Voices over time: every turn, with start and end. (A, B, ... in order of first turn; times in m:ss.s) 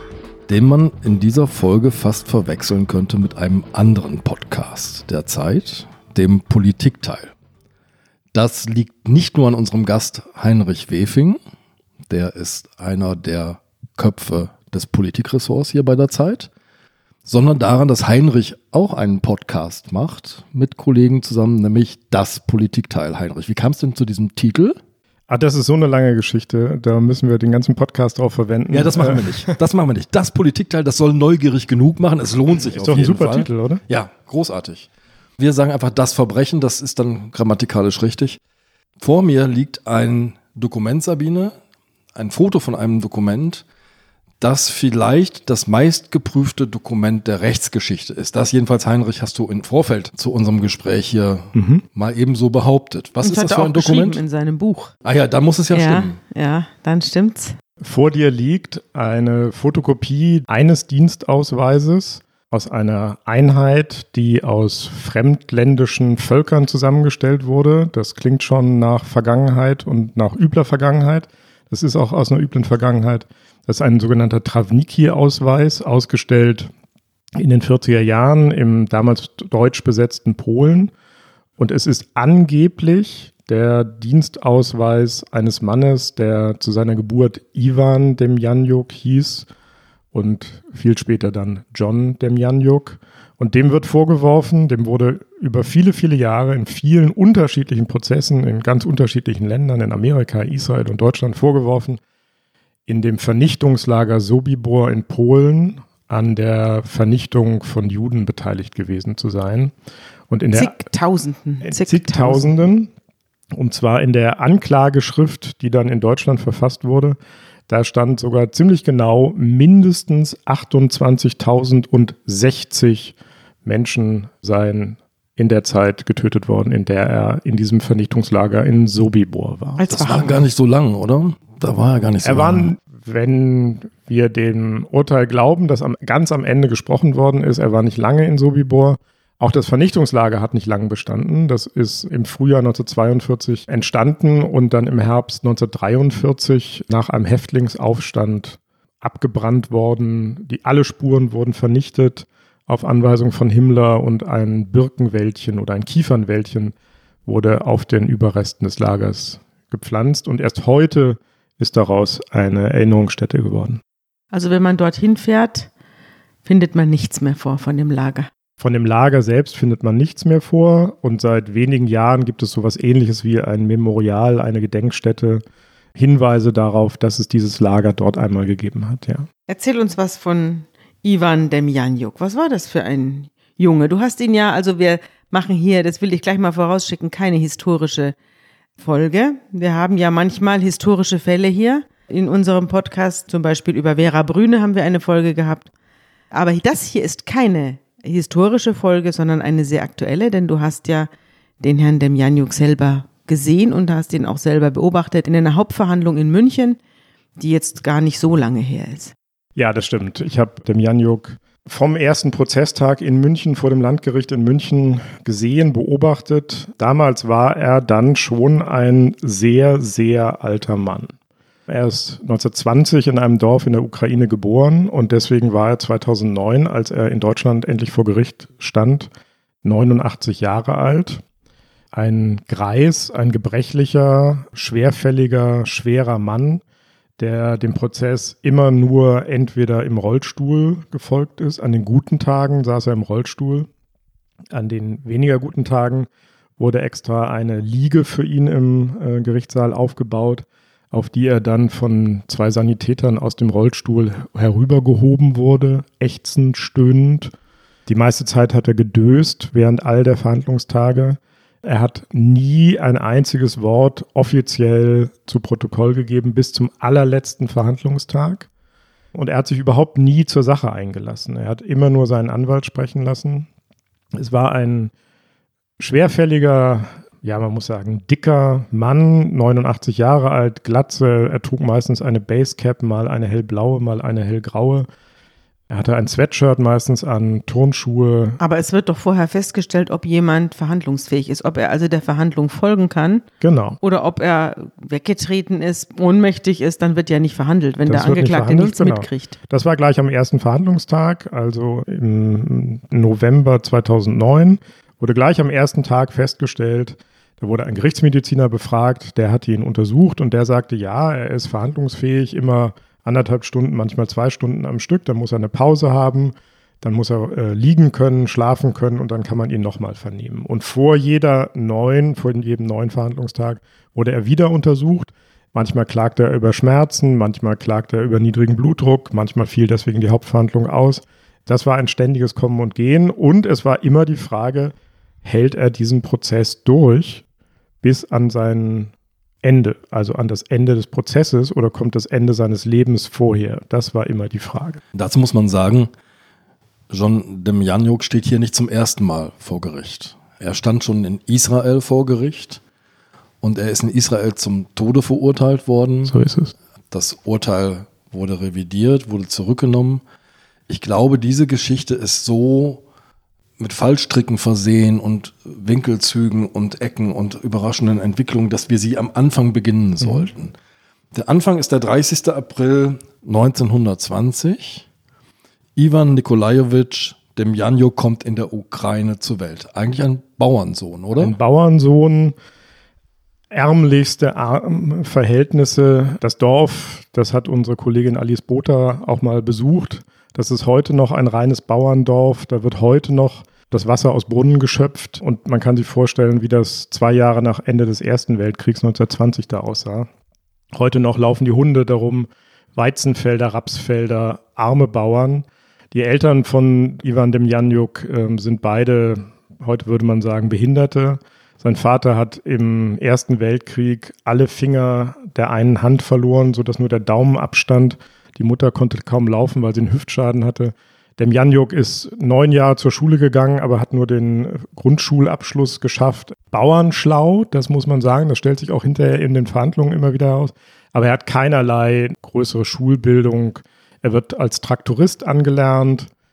0:00.5-0:07.3 A
0:08.3-0:11.4 A
0:12.1-0:16.5 A
0:17.2-0:24.8 A
0:25.3-0:29.6 B
0:28.7-0:38.4 A
0:32.7-0:33.8 B
0:39.0-0:41.5 A
0:42.2-0:43.6 A
0:44.4-0:54.2 A
0:51.5-0:51.8 B
0:53.2-0:54.9 C
0:55.0-0:56.2 A
0:55.7-0:57.6 C
0:57.8-1:16.7 B
1:17.4-1:20.9 B
1:21.6-1:29.5 B
1:30.1-1:42.0 B
1:42.9-1:49.7 B
1:50.3-1:50.9 B
1:50.5-1:52.7 C
1:51.6-1:52.9 B
1:53.6-2:09.8 B
2:09.8-2:10.4 C
2:09.9-2:12.7 A
2:12.2-2:36.7 B
2:37.3-2:43.8 B
2:44.3-2:45.7 C
2:46.4-2:48.3 C
2:48.6-2:55.4 B
2:56.0-2:59.3 B
2:59.5-3:08.1 C
3:08.8-3:15.7 C
3:16.3-3:21.1 C
3:21.6-3:26.8 C
3:27.4-3:29.1 C
3:29.6-3:41.1 B
3:41.7-3:49.1 B
3:49.6-3:51.2 B
3:51.9-3:56.6 B
3:57.2-4:03.7 B
4:04.5-4:17.3 B
4:17.9-4:28.5 B
4:29.1-4:33.5 B
4:34.2-4:34.9 B
4:35.8-4:44.9 B
4:45.7-4:48.4 B
4:48.4-4:53.2 C
4:53.4-4:53.8 B
4:53.8-4:59.4 C
4:57.9-5:37.2 B
5:37.8-5:44.8 B
5:44.9-5:45.9 A
5:46.9-5:52.6 A
5:53.4-5:56.2 A
5:56.1-5:56.5 B
5:56.9-6:00.0 A
6:00.7-6:02.8 A
6:03.6-6:10.6 A
6:10.0-6:10.3 B
6:11.1-6:14.9 A
6:15.8-6:21.4 A
6:21.2-6:22.4 B
6:23.5-6:40.1 B
6:40.7-7:16.1 B